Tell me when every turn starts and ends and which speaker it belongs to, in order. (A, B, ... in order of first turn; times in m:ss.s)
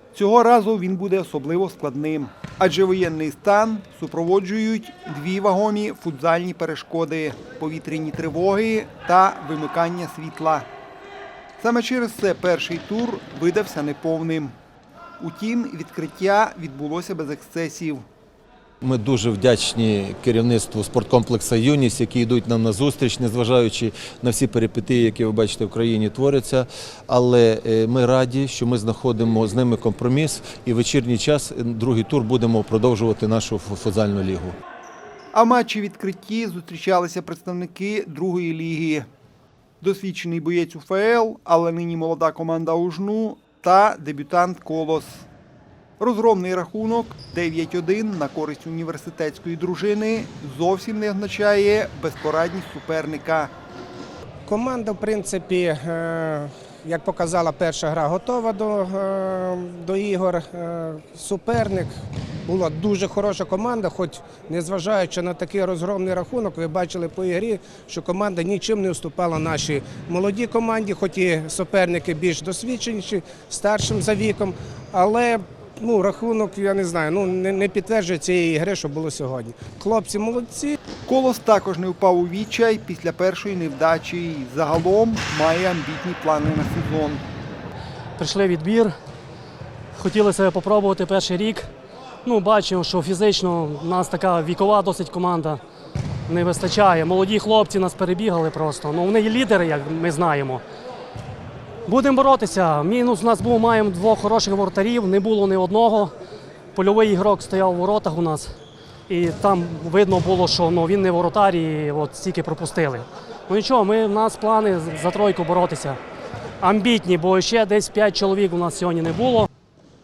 0:00.1-0:10.6 A
0:11.6-0:14.5 A
0:15.2-0:18.0 A
0:18.8-0:34.6 B
0:35.3-0:39.1 A
0:39.8-0:45.3 A
0:46.0-0:53.5 A
0:54.4-1:01.9 C
1:02.4-1:20.8 C
1:21.0-1:27.2 A
1:28.2-1:28.9 D
1:29.9-1:31.7 D
1:32.2-1:35.6 D
1:36.3-1:40.6 D
1:41.8-1:46.1 D
1:46.7-1:48.5 D
1:49.1-1:56.0 D
1:56.6-1:59.5 D